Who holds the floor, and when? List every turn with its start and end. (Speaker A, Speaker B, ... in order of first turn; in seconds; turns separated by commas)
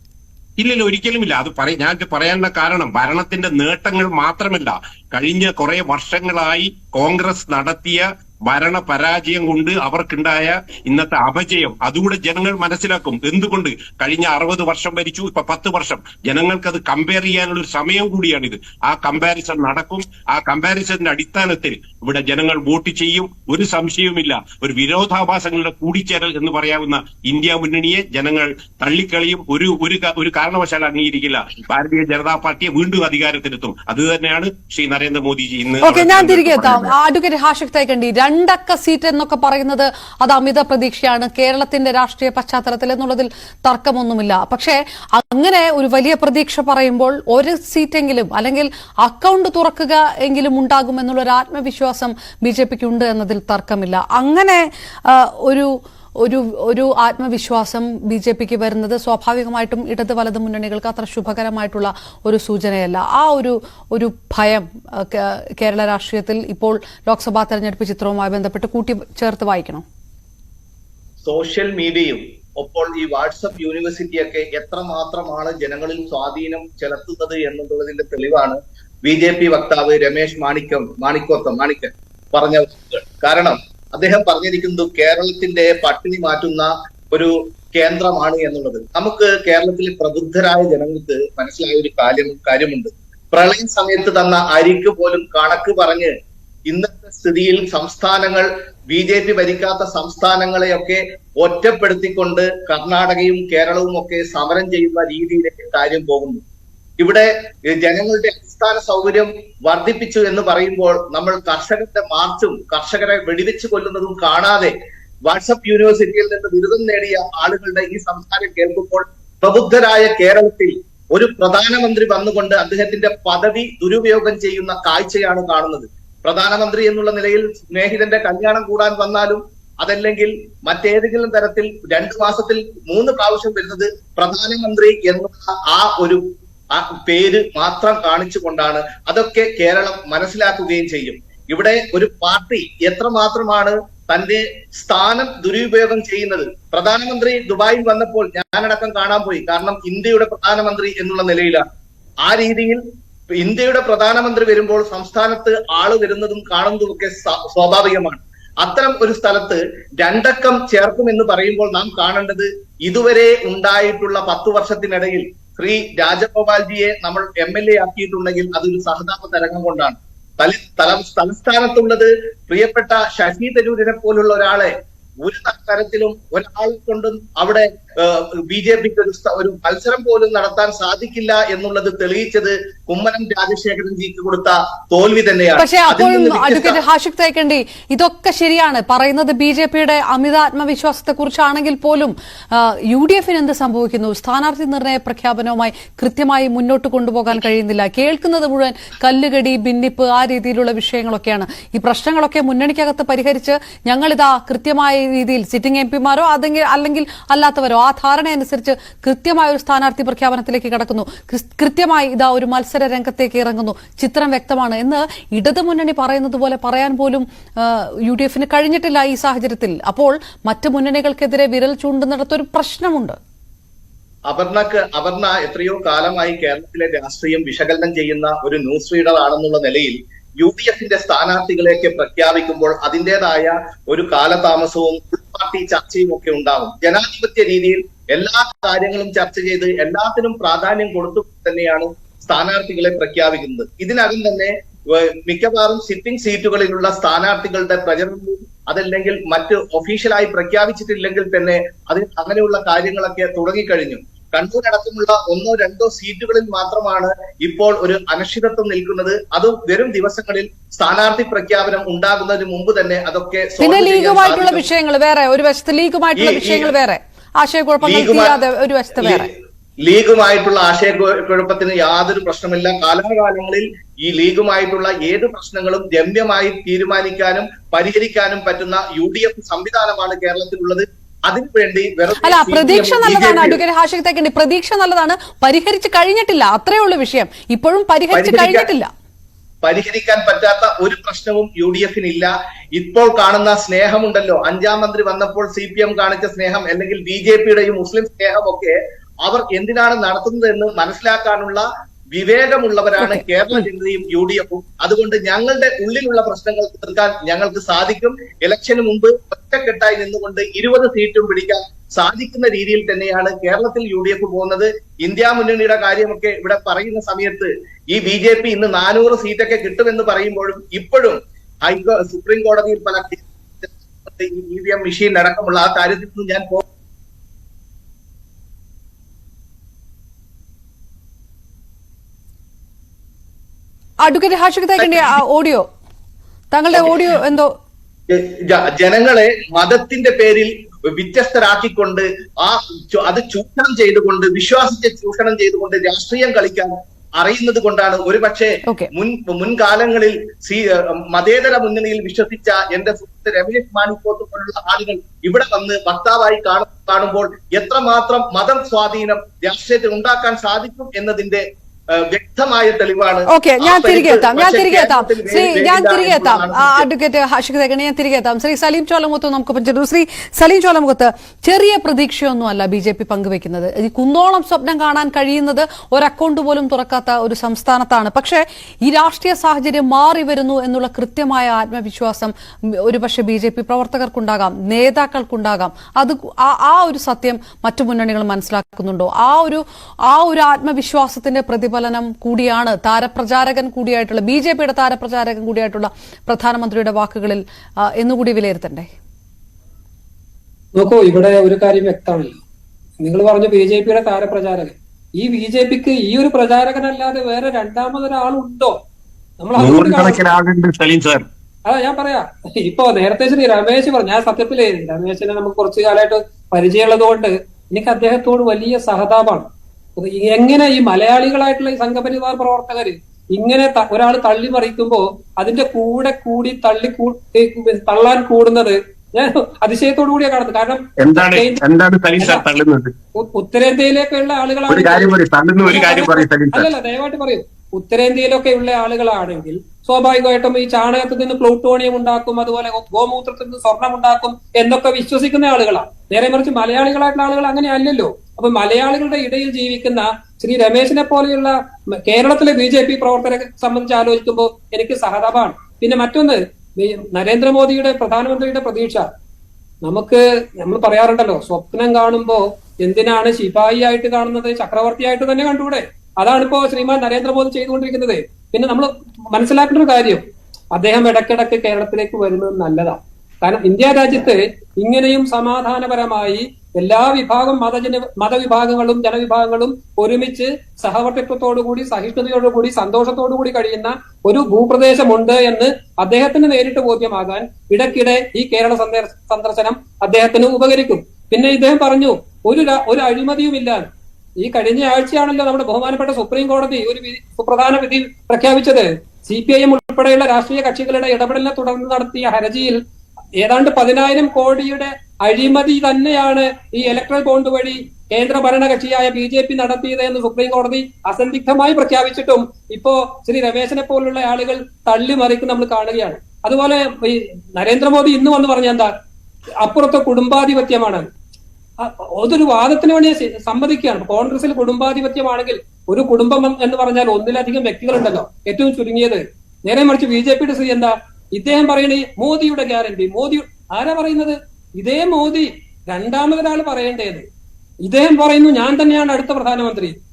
Speaker A: 0.6-36.9, Speaker B: 35.8-69.8, Speaker C: 71.2-96.1, Speaker C: 96.7-106.4, Speaker C: 107.0-114.7, Speaker C: 115.3-151.7, Speaker C: 152.2-152.8, Speaker C: 153.3-186.8, Speaker B: 185.6-223.2, Speaker C: 224.3-264.7, Speaker B: 263.6-269.3, Speaker C: 266.2-266.7, Speaker C: 267.8-268.4, Speaker C: 269.0-269.3, Speaker C: 269.9-283.6, Speaker B: 282.2-288.9, Speaker C: 288.1-288.7, Speaker C: 289.6-326.6, Speaker B: 303.0-303.6, Speaker B: 334.0-335.7, Speaker C: 334.8-335.2, Speaker B: 336.5-337.5, Speaker C: 336.7-337.0, Speaker C: 338.1-366.9, Speaker B: 363.3-398.9, Speaker D: 400.8-402.4, Speaker D: 403.0-408.8, Speaker D: 409.4-410.3, Speaker A: 409.6-411.2, Speaker D: 411.7-431.6, Speaker A: 431.0-432.9, Speaker D: 433.2-435.1, Speaker A: 434.7-436.7, Speaker D: 435.6-459.1, Speaker D: 459.8-470.2, Speaker D: 470.7-493.9, Speaker D: 494.4-502.8, Speaker D: 503.4-518.9, Speaker D: 519.6-521.1, Speaker D: 521.8-537.2, Speaker D: 537.9-540.0